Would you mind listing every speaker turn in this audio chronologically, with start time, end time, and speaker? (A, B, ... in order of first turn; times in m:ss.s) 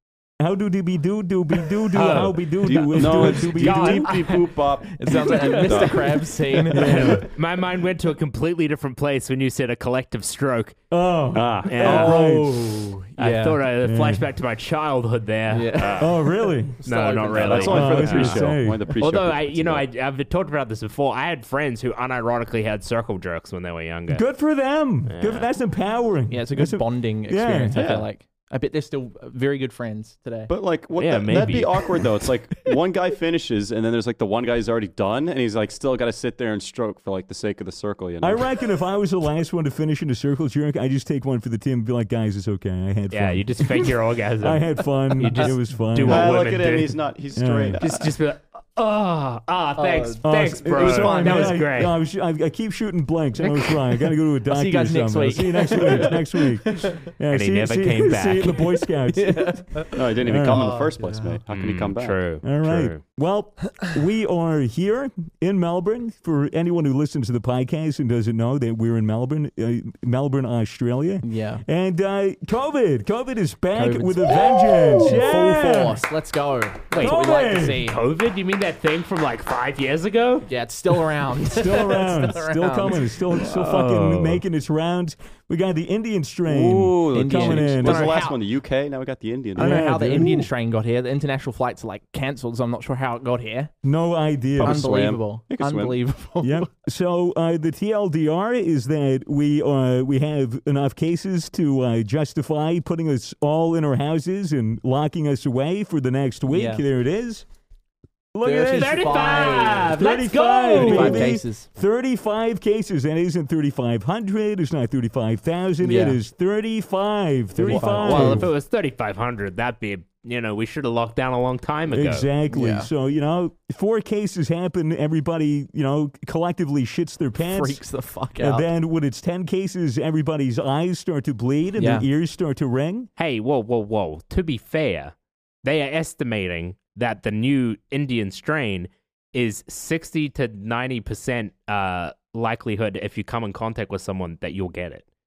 0:00.4-0:04.1 A
0:01.9-0:04.4 B
0:02.6-0:06.3 C
0:05.0-0:07.3 D
0:05.3-0:05.9 A
0:06.7-0:07.3 A
0:06.8-0:10.8 B
0:10.9-0:12.6 A
0:11.3-0:12.3 C
0:11.6-0:12.2 B
0:11.8-0:13.6 D
0:13.2-0:16.3 B
0:13.8-0:14.2 A
0:15.5-0:18.2 D
0:16.0-0:16.8 A
0:16.8-0:24.2 B
0:17.3-0:19.9 C
0:17.6-0:18.8 A
0:24.1-0:27.9 A
0:25.1-0:25.5 B
0:26.3-0:30.5 D
0:27.8-0:28.1 C
0:30.5-0:38.5 C
0:31.0-0:31.9 B
0:38.2-0:46.5 A
0:43.1-0:47.0 B
0:46.0-0:48.0 C
0:47.4-0:47.8 A
0:47.8-0:52.0 B
0:49.8-0:51.6 D
0:50.2-1:00.6 A
0:53.4-0:57.0 D
0:57.3-0:58.7 B
0:58.6-1:01.3 D
0:59.9-1:02.2 C
1:01.5-1:03.0 B
1:02.4-1:16.0 A
1:11.2-1:11.6 D
1:13.8-1:18.0 D
1:16.9-1:20.5 B
1:17.0-1:17.9 A
1:20.5-1:23.5 D
1:21.4-1:28.2 A
1:23.4-1:24.4 B
1:26.5-1:29.9 C
1:27.1-1:28.4 D
1:29.6-1:30.5 A
1:29.6-1:33.7 D
1:33.8-1:35.0 A
1:34.6-1:36.0 C
1:34.6-1:36.7 D
1:36.4-1:47.4 A
1:46.5-1:46.8 D
1:48.3-1:58.5 A
1:48.4-1:50.0 D
1:48.7-1:51.3 B
1:50.6-1:51.7 D
1:55.8-1:56.2 D
1:57.6-1:58.5 D
1:57.7-2:02.3 B
2:01.9-2:07.8 A
2:02.5-2:02.9 D
2:07.4-2:08.7 D
2:08.4-2:13.1 A
2:11.8-2:12.1 D
2:13.2-2:25.1 B